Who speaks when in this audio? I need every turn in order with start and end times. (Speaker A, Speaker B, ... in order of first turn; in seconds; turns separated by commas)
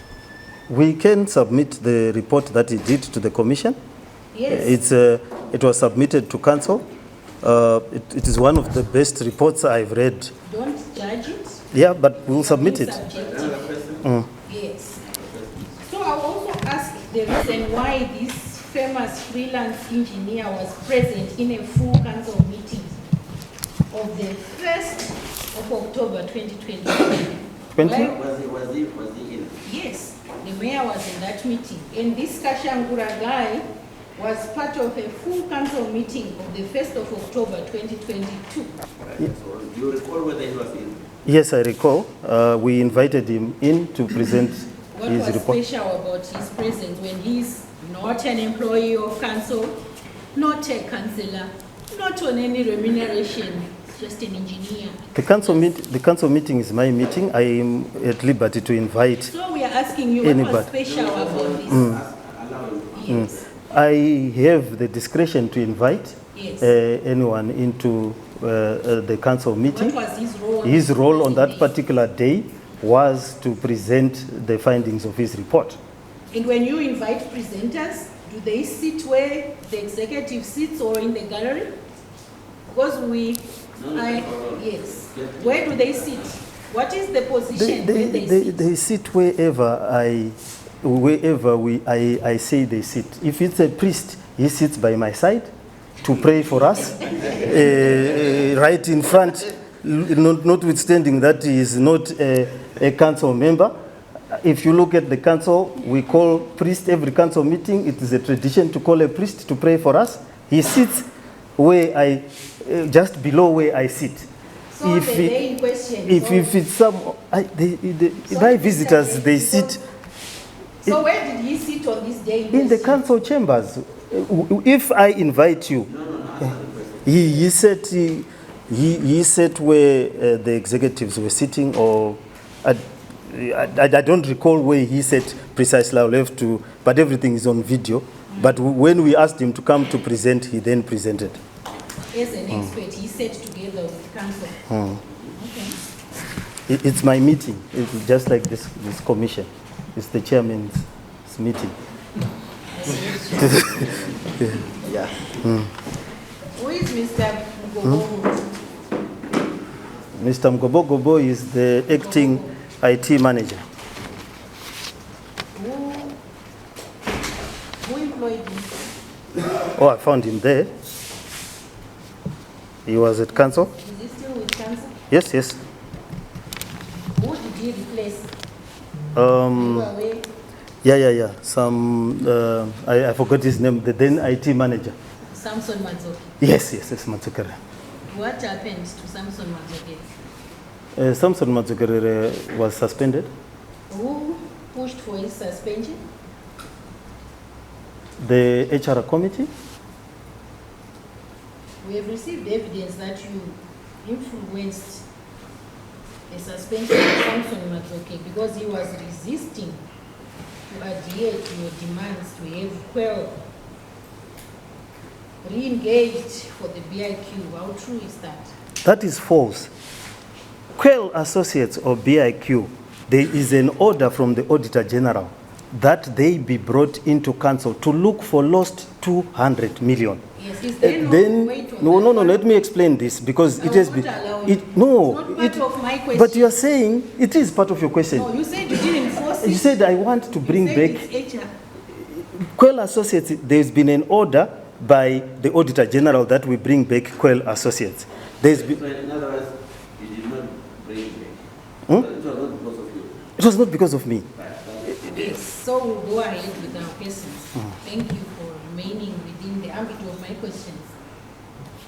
Speaker A: 0.7-3.8, Speaker B: 4.3-4.8, Speaker A: 4.5-6.8, Speaker A: 7.4-10.3, Speaker B: 10.4-11.7, Speaker A: 11.7-13.0, Speaker B: 12.2-13.8, Speaker C: 13.1-14.1, Speaker B: 14.4-15.0, Speaker C: 15.0-15.8, Speaker B: 15.8-23.0, Speaker B: 23.9-28.1, Speaker A: 27.8-28.2, Speaker C: 27.9-29.6, Speaker B: 29.6-33.6, Speaker B: 34.2-38.7, Speaker C: 39.1-41.0, Speaker A: 41.2-45.6, Speaker B: 44.9-49.8, Speaker B: 50.3-55.7, Speaker A: 55.2-59.3, Speaker B: 59.3-62.0, Speaker A: 60.2-60.7, Speaker C: 60.8-63.5, Speaker A: 61.7-62.0, Speaker B: 62.9-63.3, Speaker A: 63.1-70.0, Speaker B: 66.3-66.7, Speaker B: 69.7-71.7, Speaker A: 70.6-75.8, Speaker B: 76.3-81.7, Speaker B: 82.7-88.7, Speaker C: 83.8-86.3, Speaker A: 87.5-95.5, Speaker A: 96.0-103.7, Speaker A: 104.3-111.1, Speaker A: 111.6-114.3, Speaker B: 114.7-116.6, Speaker A: 114.8-115.4, Speaker A: 116.1-119.8, Speaker B: 118.3-119.8, Speaker B: 120.8-123.1, Speaker A: 122.5-125.9, Speaker C: 125.8-127.2, Speaker A: 127.1-141.4, Speaker B: 138.3-138.6, Speaker B: 142.1-144.7, Speaker A: 144.7-145.0, Speaker B: 145.3-145.8, Speaker A: 146.7-151.7, Speaker B: 152.7-154.0, Speaker A: 153.4-154.6, Speaker C: 154.8-155.3, Speaker A: 155.4-155.7, Speaker B: 156.6-158.5, Speaker A: 160.2-163.7, Speaker B: 161.9-162.6, Speaker B: 165.5-166.2, Speaker B: 167.8-168.8, Speaker A: 169.7-170.7, Speaker A: 172.9-173.7, Speaker B: 173.3-175.0, Speaker A: 175.1-175.6, Speaker B: 177.2-178.3, Speaker A: 179.2-179.9, Speaker B: 179.6-180.3, Speaker A: 180.8-185.0, Speaker B: 185.3-186.3, Speaker A: 186.4-187.6, Speaker B: 188.1-190.1, Speaker A: 191.0-193.3, Speaker B: 193.9-196.0, Speaker A: 198.2-199.5, Speaker B: 201.8-205.0, Speaker B: 206.3-209.8, Speaker B: 210.7-213.4, Speaker B: 215.4-218.5, Speaker A: 218.8-219.7, Speaker A: 220.8-230.2, Speaker B: 230.4-232.4, Speaker A: 230.8-238.3, Speaker B: 233.6-236.6, Speaker B: 238.1-239.8, Speaker A: 239.4-241.1, Speaker B: 240.4-241.5, Speaker A: 242.1-248.8, Speaker C: 248.5-253.2, Speaker A: 253.4-254.3, Speaker C: 254.4-255.4, Speaker B: 255.0-260.9